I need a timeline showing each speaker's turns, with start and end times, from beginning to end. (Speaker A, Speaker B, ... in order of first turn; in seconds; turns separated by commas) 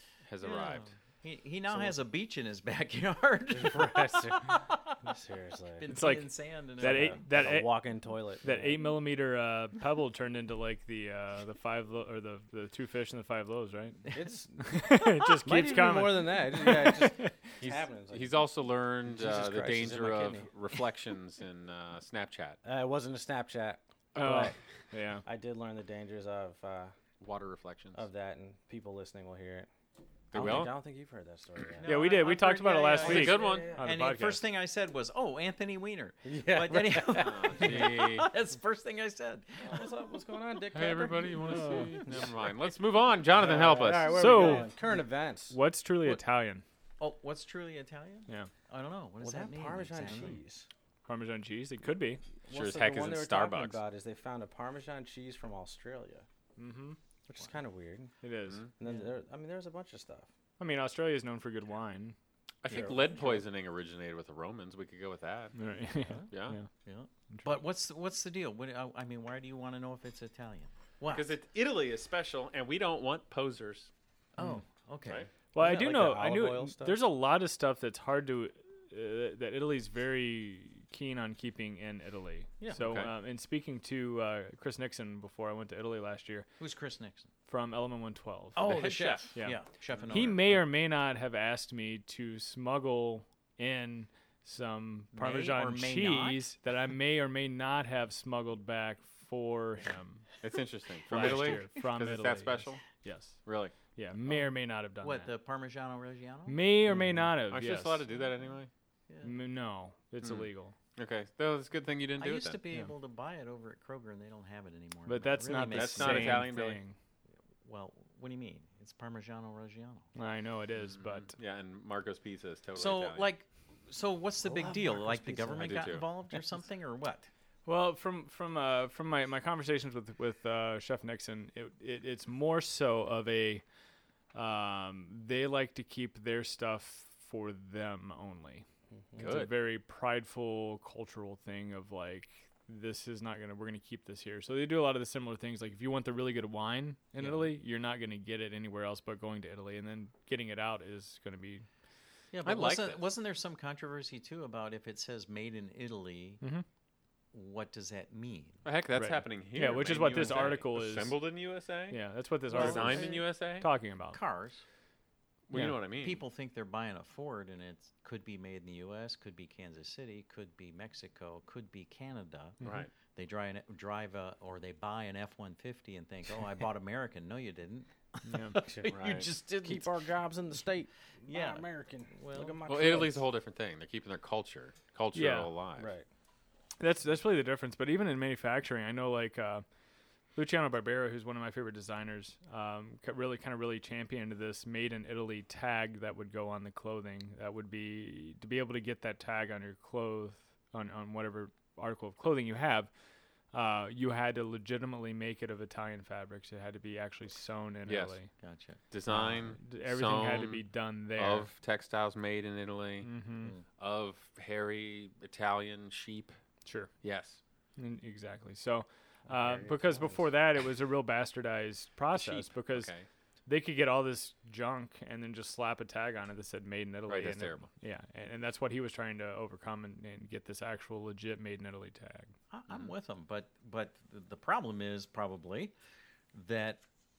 Speaker A: 0.3-0.9, Speaker B: 0.4-5.0, Speaker C: 1.7-1.9, Speaker C: 3.5-6.0, Speaker B: 5.8-7.5, Speaker D: 5.9-7.8, Speaker C: 6.8-8.9, Speaker D: 8.4-17.3, Speaker C: 14.1-18.5, Speaker A: 17.6-22.6, Speaker C: 19.0-20.5, Speaker C: 22.6-24.6, Speaker D: 24.1-25.2, Speaker C: 25.2-26.9, Speaker A: 27.2-28.0, Speaker C: 27.9-29.7, Speaker A: 30.3-30.7, Speaker C: 30.3-32.1, Speaker B: 31.8-39.9, Speaker D: 31.8-34.4, Speaker C: 32.9-33.9, Speaker A: 33.0-33.7, Speaker C: 36.2-37.8, Speaker A: 37.1-38.3, Speaker C: 39.6-42.3, Speaker A: 40.7-44.3, Speaker B: 40.8-41.2, Speaker D: 41.5-42.0, Speaker C: 43.3-45.5, Speaker D: 44.1-44.7, Speaker B: 44.4-44.6, Speaker D: 45.5-46.6, Speaker B: 47.0-50.4, Speaker C: 49.2-50.7, Speaker D: 51.0-52.2, Speaker C: 52.4-56.2, Speaker A: 52.5-53.8, Speaker D: 56.6-57.0, Speaker C: 57.3-58.1, Speaker D: 58.2-58.6, Speaker C: 58.8-60.3, Speaker D: 60.6-62.1, Speaker A: 62.6-65.5, Speaker B: 62.7-63.4, Speaker C: 62.7-63.4, Speaker D: 65.5-66.7, Speaker B: 66.1-71.3, Speaker A: 66.3-66.6, Speaker D: 67.3-67.6, Speaker A: 71.1-73.9, Speaker B: 74.4-75.3, Speaker D: 75.5-86.5, Speaker C: 75.5-77.0, Speaker B: 82.6-83.0, Speaker A: 82.8-83.1, Speaker B: 86.6-87.3, Speaker D: 87.5-100.2, Speaker B: 88.5-90.6, Speaker A: 88.6-89.3, Speaker B: 95.1-96.4, Speaker A: 100.4-102.8, Speaker D: 101.1-105.3, Speaker B: 101.2-101.6, Speaker A: 103.4-103.7, Speaker B: 104.2-106.6, Speaker D: 106.5-108.0, Speaker C: 106.9-107.3, Speaker A: 107.5-108.7, Speaker B: 109.1-109.3, Speaker D: 109.2-110.7, Speaker A: 110.2-112.6, Speaker B: 112.2-116.5, Speaker D: 115.0-116.9, Speaker A: 115.6-116.8, Speaker B: 117.6-120.1, Speaker D: 120.1-121.3, Speaker A: 120.9-123.3, Speaker B: 122.8-127.3, Speaker C: 124.4-126.4, Speaker A: 125.6-126.0, Speaker D: 127.7-133.6, Speaker D: 134.3-138.6, Speaker D: 139.2-151.7, Speaker A: 139.2-139.5, Speaker B: 147.2-147.5, Speaker B: 152.3-156.4, Speaker A: 152.4-153.0, Speaker B: 157.3-158.6, Speaker A: 158.6-163.7, Speaker D: 158.9-161.2, Speaker B: 160.1-160.5, Speaker D: 161.9-164.2, Speaker B: 162.5-163.2, Speaker B: 164.1-164.6, Speaker A: 165.5-166.2, Speaker B: 166.0-180.0, Speaker A: 172.6-172.9, Speaker D: 178.2-178.6, Speaker C: 178.6-183.3, Speaker A: 178.9-179.3, Speaker B: 181.3-182.6, Speaker A: 182.6-185.9, Speaker D: 185.1-185.5, Speaker C: 185.8-186.1, Speaker D: 186.8-189.6, Speaker D: 190.3-202.9, Speaker D: 203.5-208.3, Speaker A: 207.8-208.2, Speaker B: 208.4-209.5, Speaker A: 208.9-213.1, Speaker D: 209.6-211.5, Speaker D: 213.0-213.5, Speaker A: 213.8-216.3, Speaker D: 216.6-216.9, Speaker A: 217.0-217.4, Speaker D: 217.8-222.9, Speaker C: 219.3-220.3, Speaker A: 222.1-223.1, Speaker D: 223.4-232.3, Speaker A: 227.1-227.7, Speaker B: 232.5-235.7, Speaker B: 236.3-236.8